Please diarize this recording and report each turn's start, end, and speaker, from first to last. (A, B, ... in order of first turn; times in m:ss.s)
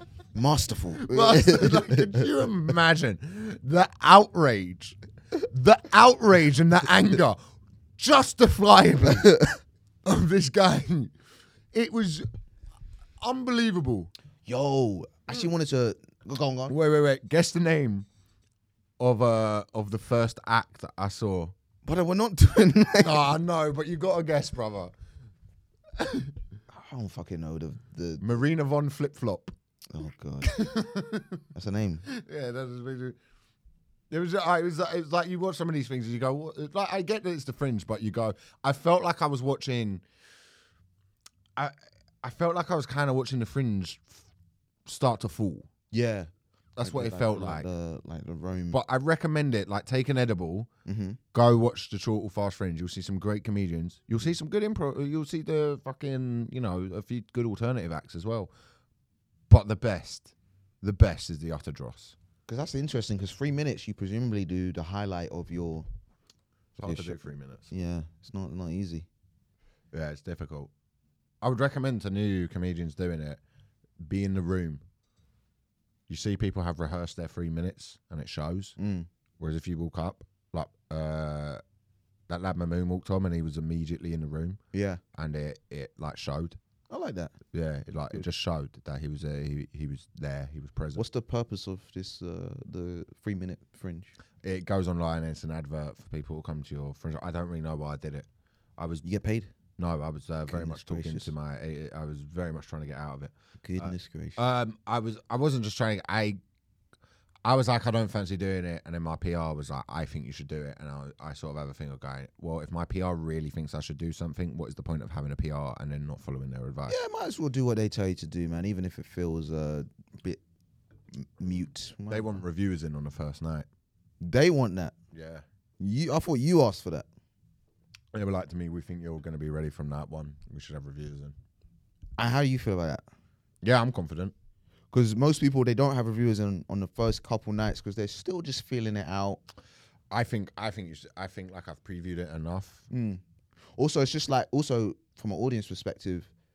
0:00.3-0:02.2 A
0:01.0-0:07.4 B
0:08.0-0:09.5 B
0:09.2-0:09.5 A
0:10.0-0:11.1 B
0:11.7-0:12.2 B
0:13.2-0:14.1 B
0:14.4-0:16.7 A
0:16.7-0:18.0 B
0:19.0-0:21.5 B
0:21.8-0:23.3 A
0:23.0-0:24.9 B
0:26.0-0:26.3 B
0:26.7-0:28.2 A
0:28.2-0:29.5 B
0:29.9-0:30.7 A
0:30.4-0:31.4 B
0:31.5-0:32.0 A
0:32.0-0:33.2 B
0:34.1-0:40.0 B
0:41.6-0:44.2 B
0:44.8-0:45.7 B
0:45.9-0:46.3 A
0:46.8-0:47.6 B
0:46.8-0:48.8 A
0:48.7-0:50.7 B
0:50.8-0:51.2 A
0:51.3-0:58.5 B
0:59.5-1:02.2 B
1:02.5-1:05.9 A
1:06.7-1:07.7 B
1:06.8-1:09.1 A
1:09.9-1:10.7 B
1:11.4-1:13.4 B
1:14.0-1:14.8 B
1:16.1-1:18.8 B
1:18.8-1:19.1 A
1:19.4-1:21.6 B
1:22.3-1:24.6 B
1:24.7-1:25.0 A
1:25.1-1:26.6 B
1:26.9-1:27.3 A
1:27.5-1:31.0 B
1:31.0-1:34.1 A
1:34.4-1:39.0 B
1:39.0-1:39.5 A
1:39.8-1:46.4 B
1:40.5-1:41.3 A
1:43.6-1:44.4 A
1:47.4-1:57.0 B
1:56.9-2:00.4 A
2:01.1-2:02.4 A
2:02.1-2:03.6 B
2:04.2-2:04.9 A
2:05.1-2:05.4 B
2:05.8-2:07.1 A
2:08.1-2:11.3 B
2:12.2-2:13.0 A
2:13.6-2:14.3 B
2:14.9-2:19.4 A
2:20.1-2:22.8 B
2:22.9-2:23.2 A
2:23.8-2:26.3 A